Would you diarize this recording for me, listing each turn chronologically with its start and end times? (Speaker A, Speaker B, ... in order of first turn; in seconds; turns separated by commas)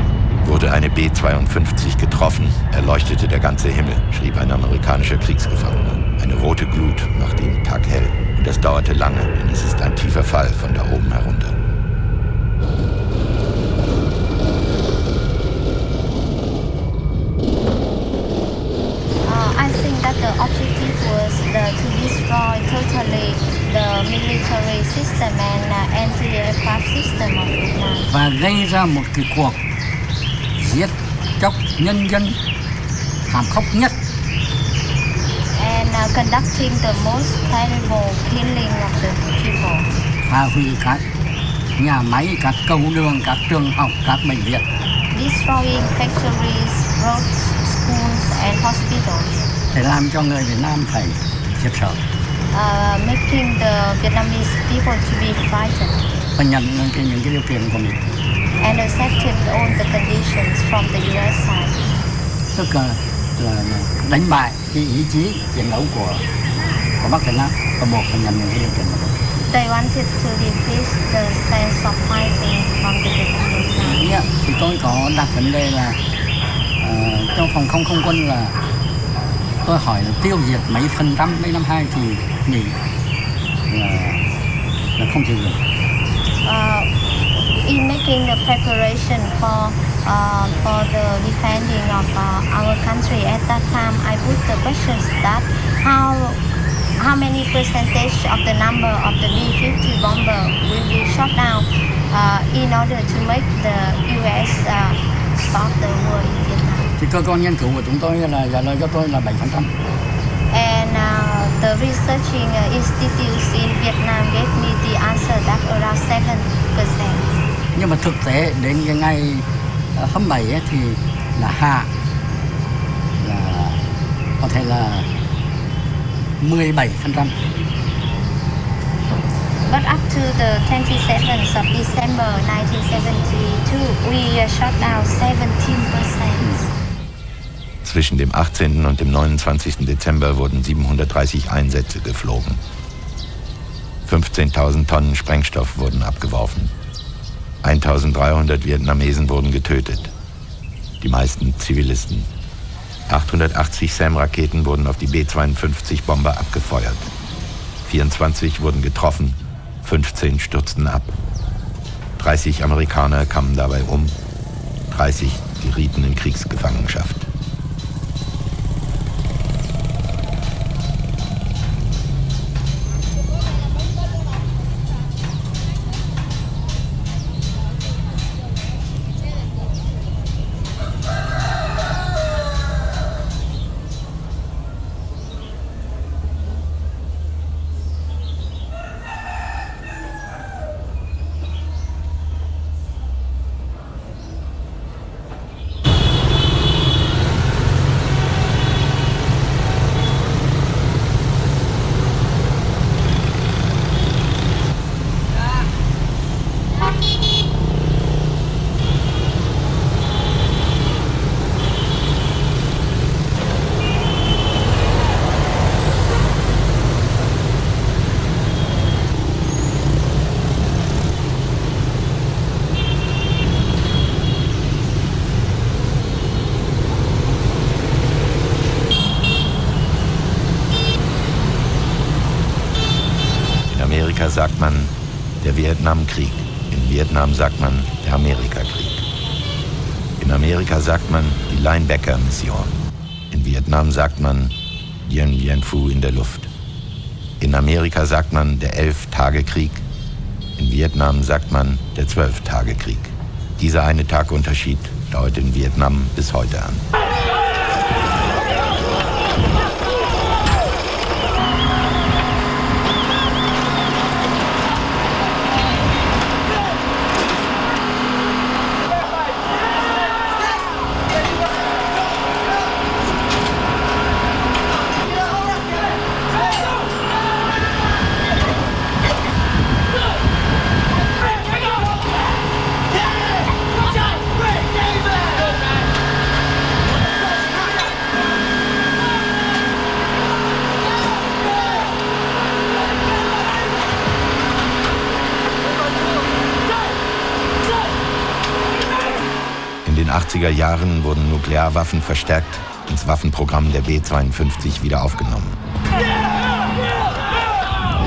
Speaker A: 0.4-11.5, Speaker B: 19.2-28.1, Speaker C: 28.1-29.6, Speaker C: 30.6-32.4, Speaker C: 33.3-34.0, Speaker B: 35.5-39.9, Speaker C: 40.3-41.0, Speaker C: 41.8-44.6, Speaker B: 45.1-49.4, Speaker C: 49.7-52.0, Speaker B: 52.5-56.1, Speaker C: 56.4-58.0, Speaker B: 58.6-61.8, Speaker C: 62.5-66.2, Speaker C: 67.0-69.1, Speaker B: 69.5-74.1, Speaker C: 73.9-76.0, Speaker C: 76.8-78.5, Speaker C: 79.6-82.8, Speaker C: 83.7-84.2, Speaker C: 85.0-85.6, Speaker B: 86.4-86.9, Speaker B: 87.6-96.4, Speaker B: 97.0-106.9, Speaker C: 107.0-109.7, Speaker B: 110.5-117.3, Speaker C: 117.8-119.5, Speaker C: 120.0-121.9, Speaker C: 123.2-123.8, Speaker C: 124.4-125.1, Speaker C: 126.4-127.3, Speaker B: 129.7-136.7, Speaker A: 137.8-142.6, Speaker A: 144.1-146.7, Speaker A: 147.6-150.1, Speaker A: 151.0-152.3, Speaker A: 153.1-157.1, Speaker A: 157.8-161.1, Speaker A: 162.2-164.1, Speaker A: 164.9-167.2, Speaker A: 233.7-239.0, Speaker A: 240.2-242.8, Speaker A: 243.3-244.5, Speaker A: 245.0-246.5, Speaker A: 247.4-249.8, Speaker A: 250.6-256.8, Speaker A: 299.8-305.6